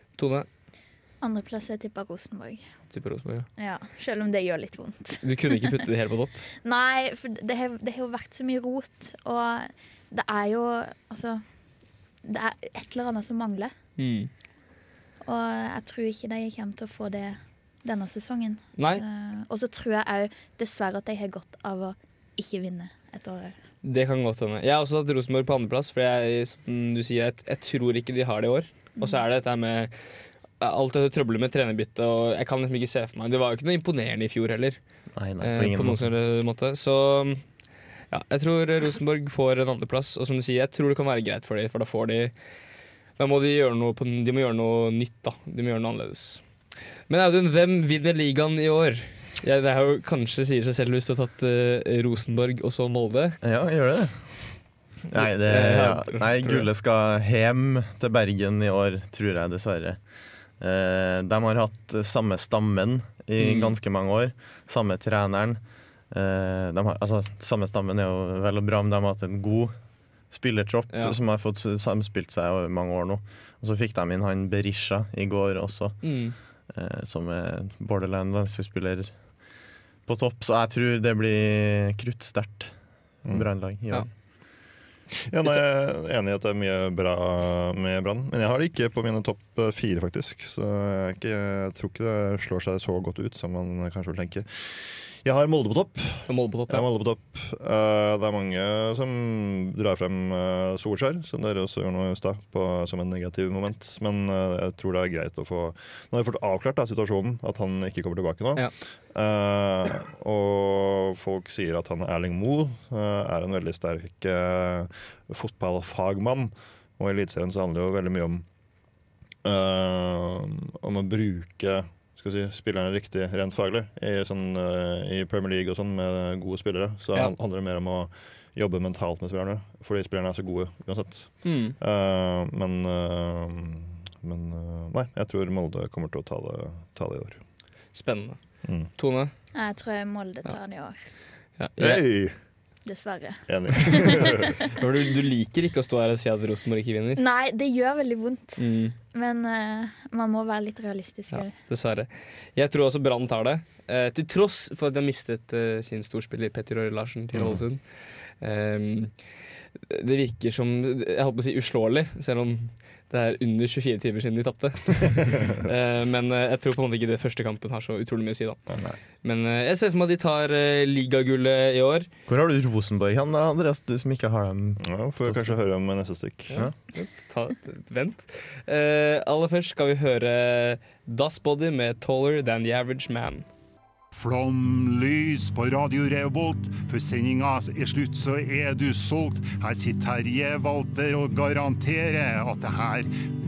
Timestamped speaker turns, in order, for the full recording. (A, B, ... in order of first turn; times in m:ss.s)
0:00.2-0:00.4 A
0:01.2-0:02.6 B
0:02.9-0:03.4 A
0:03.6-0:05.7 B
0:05.2-0:06.4 A
0:06.6-0:11.4 B
0:12.2-0:13.7 B
0:14.0-0:14.3 A
0:15.2-0:23.6 B
0:18.8-0:19.0 A
0:23.8-0:29.9 A
0:29.0-0:29.2 B
0:30.6-0:34.8 A
0:35.2-0:36.1 C
0:35.4-0:37.4 A
0:38.1-0:42.3 A
0:43.2-0:46.4 A
0:47.1-0:53.4 A
0:53.4-0:54.3 C
0:55.1-0:56.7 A
0:55.1-1:00.0 C
1:00.6-1:05.6 C
1:03.4-1:03.7 A
1:06.1-1:09.7 C
1:10.3-1:16.0 C
1:10.9-1:11.2 A
1:16.0-1:16.4 A
1:16.7-1:19.1 C
1:20.0-1:22.7 C
1:23.2-1:24.1 C
1:25.2-1:58.4 D
1:36.3-1:36.8 A
1:59.4-2:17.4 D
2:11.4-2:11.8 A
2:17.9-2:18.4 A
2:18.6-2:18.9 D
2:18.9-2:19.3 A
2:19.5-2:21.0 B
2:21.6-2:22.0 A
2:21.8-2:22.4 D
2:22.8-2:24.5 B
2:23.5-2:24.5 D
2:24.7-2:27.2 A
2:27.2-2:31.5 B
2:28.6-2:28.9 A
2:31.3-2:39.1 A
2:37.3-2:37.6 D
2:39.9-2:48.6 A
2:45.2-2:45.6 D
2:49.2-2:52.1 A
2:52.3-2:55.5 C
2:54.8-2:56.6 D
2:56.5-3:03.4 A
3:04.1-3:13.1 E